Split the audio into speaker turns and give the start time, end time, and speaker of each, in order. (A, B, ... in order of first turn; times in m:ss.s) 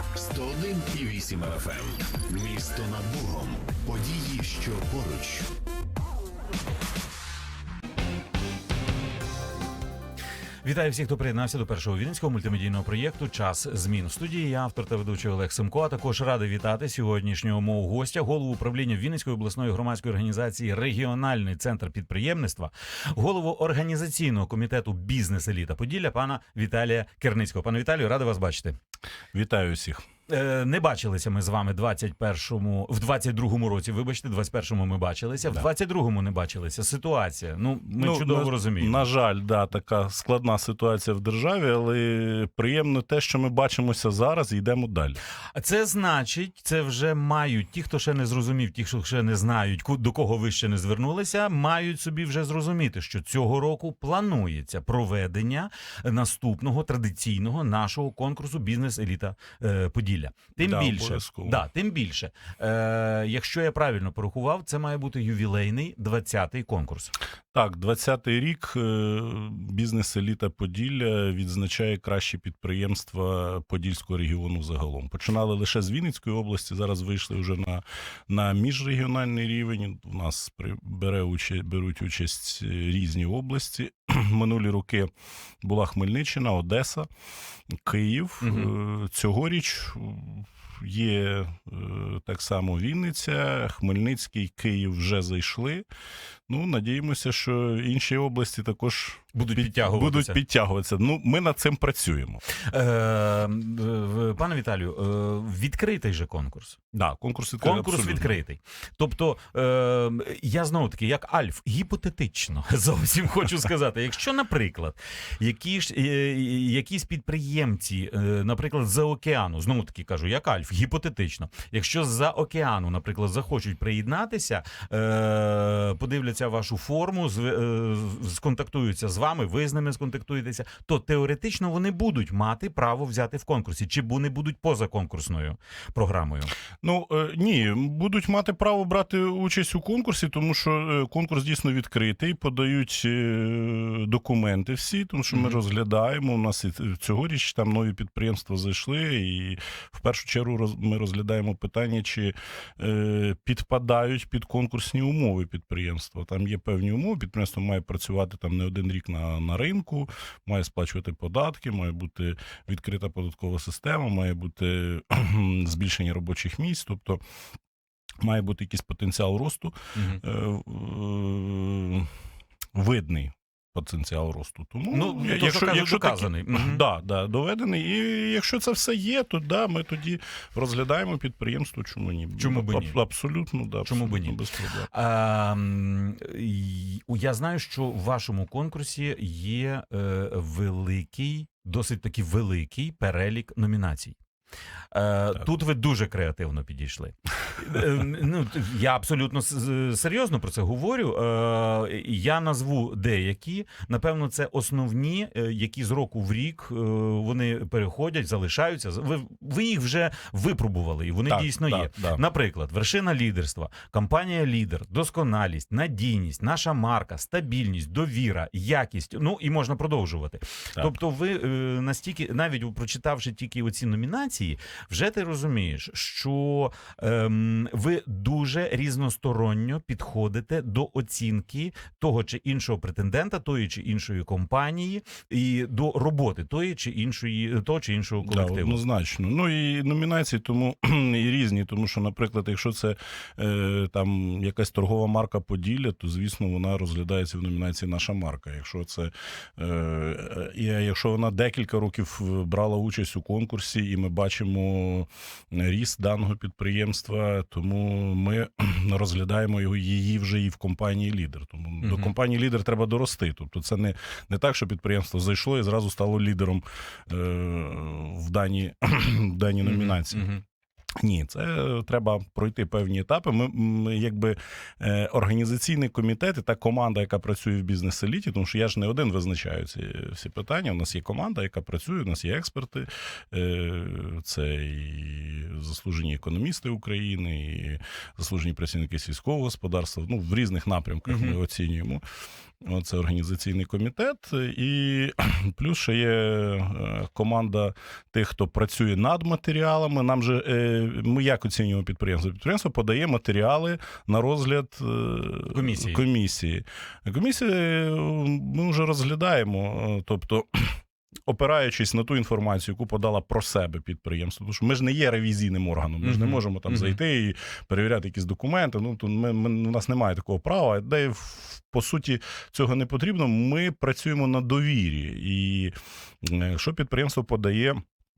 0:00.2-0:05.5 A
0:10.6-0:28.8 B
0:29.3-0:30.0 C
0:30.3-0:39.1 B
0:38.0-0:45.2 C
0:45.5-1:07.1 B
1:00.6-1:01.6 C
1:07.5-1:25.1 C
1:25.6-1:27.1 C
1:27.8-1:35.8 C
1:28.4-1:28.7 B
1:36.5-1:42.4 C
1:39.3-1:40.4 B
1:42.5-1:46.8 B
1:46.9-1:48.4 C
1:47.6-2:16.5 B
2:16.8-2:47.2 C
2:25.3-2:25.6 B
2:48.2-2:52.1 C
2:50.0-2:50.2 B
2:52.8-3:04.9 C
2:54.9-2:56.8 B
3:02.4-3:03.0 B
3:03.8-3:04.4 B
3:04.9-3:14.2 B
3:14.9-3:58.8 B
3:31.3-3:32.2 C
3:58.2-4:30.3 C
4:21.8-4:22.1 B
4:29.6-4:30.4 B
4:31.0-4:52.0 C
4:51.1-4:51.4 B
4:52.6-5:27.8 C
5:05.5-5:06.1 B
5:16.0-5:17.0 B